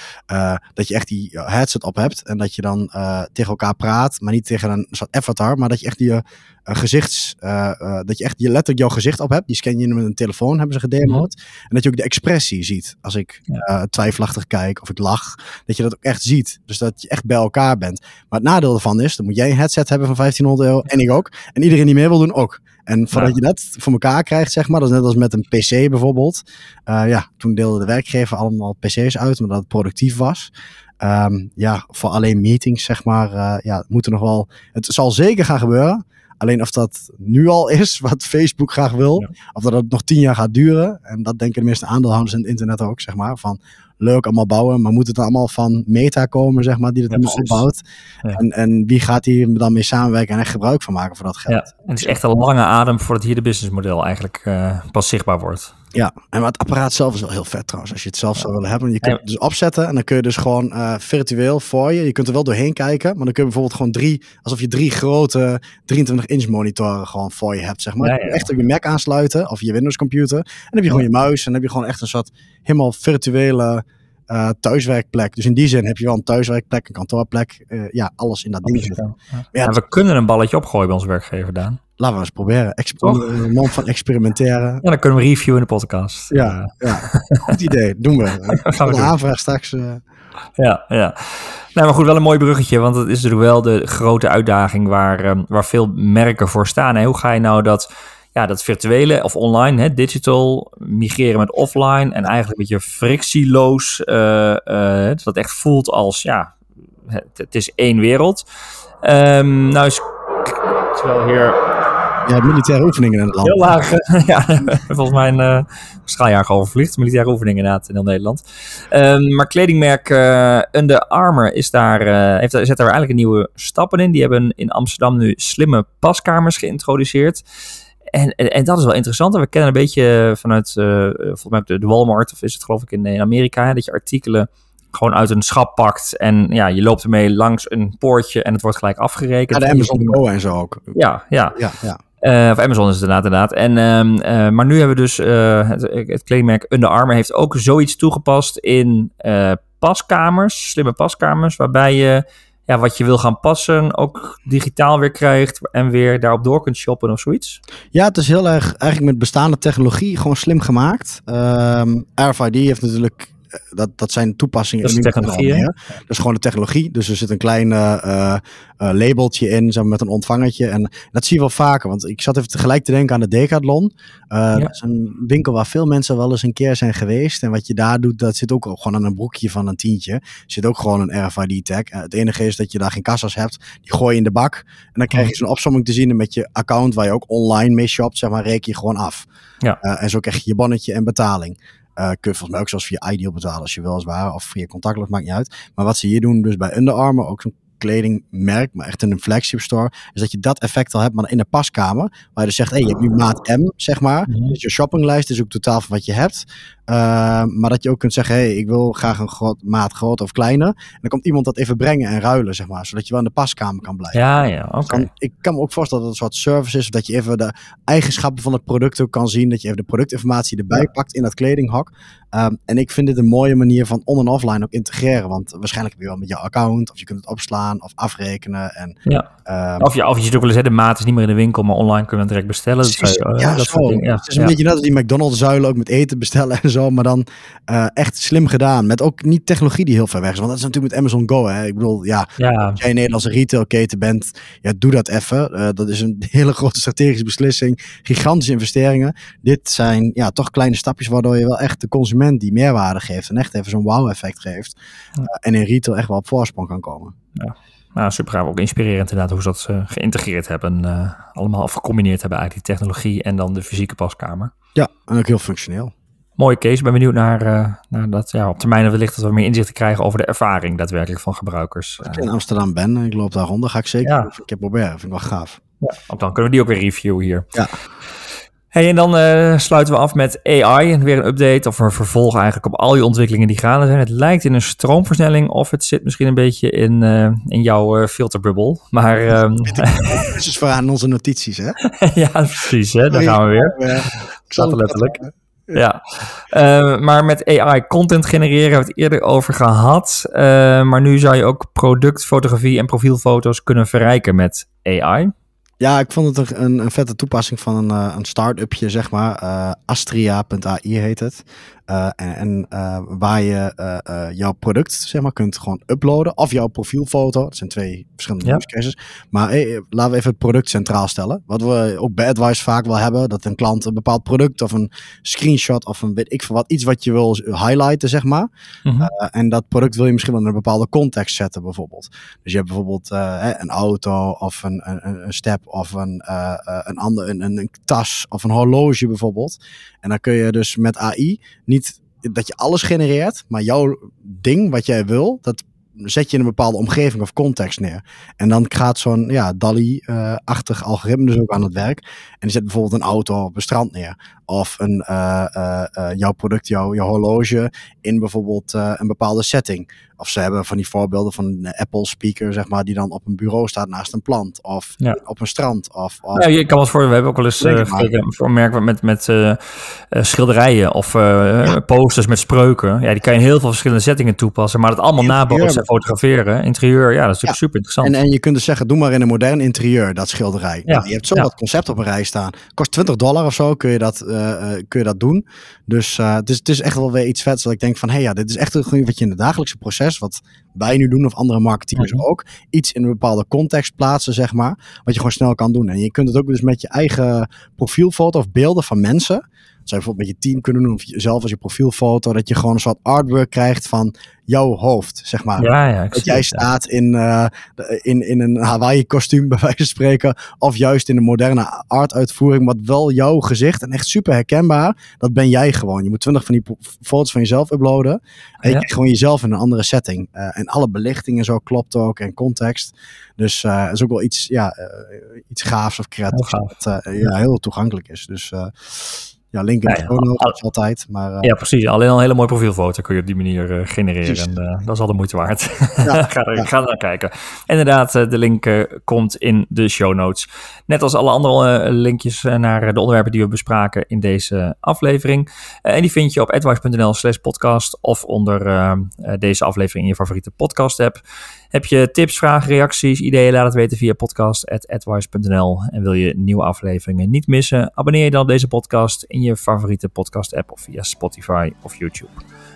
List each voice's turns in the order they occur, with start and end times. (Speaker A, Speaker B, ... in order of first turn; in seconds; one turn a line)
Speaker A: 0.3-47.8
Speaker B: 47.1-47.6
Speaker A: 48.3-52.2
Speaker B: 51.5-55.7
Speaker A: 55.9-79.0
Speaker B: 68.0-68.5
Speaker B: 78.7-81.8
Speaker A: 79.5-79.8
Speaker A: 82.0-84.8
Speaker B: 83.0-83.7
Speaker B: 84.8-87.5
Speaker A: 86.3-90.0
Speaker B: 88.5-89.1
Speaker B: 90.6-106.6
Speaker B: 107.1-108.4
Speaker B: 109.0-111.6
Speaker A: 112.3-113.6
Speaker B: 113.4-127.4
Speaker B: 128.1-140.2
Speaker A: 139.5-141.0
Speaker B: 140.9-141.6
Speaker A: 141.5-142.0
Speaker B: 142.2-157.6
Speaker A: 157.9-189.3
Speaker B: 164.8-165.7
Speaker A: 189.8-214.2
Speaker B: 204.3-204.6
Speaker B: 214.1-215.1
Speaker A: 214.9-229.9
Speaker B: 229.8-234.6
Speaker A: 232.8-254.8
Speaker B: 242.4-242.8
Speaker A: 255.3-257.1
Speaker B: 257.4-264.5
Speaker A: 264.8-265.9
Speaker B: 266.4-272.3
Speaker A: 272.0-275.6
Speaker B: 274.0-274.3
Speaker B: 275.8-277.5
Speaker B: 278.7-290.1
Speaker A: 289.6-291.8
Speaker B: 291.9-293.8
Speaker A: 293.1-295.8
Speaker B: 294.6-295.2
Speaker B: 295.7-305.3
Speaker A: 305.8-328.5
Speaker B: 328.9-329.1
Speaker A: 329.0-366.5
Speaker B: 366.4-378.2
Speaker A: 367.6-368.1
Speaker A: 375.2-375.9
Speaker A: 377.4-431.5
Speaker B: 380.9-381.5
Speaker B: 392.0-392.2
Speaker B: 405.6-406.7
Speaker B: 426.3-426.7
Speaker B: 429.9-430.5
Speaker B: 431.4-451.2
Speaker A: 436.0-436.7
Speaker B: 451.7-462.4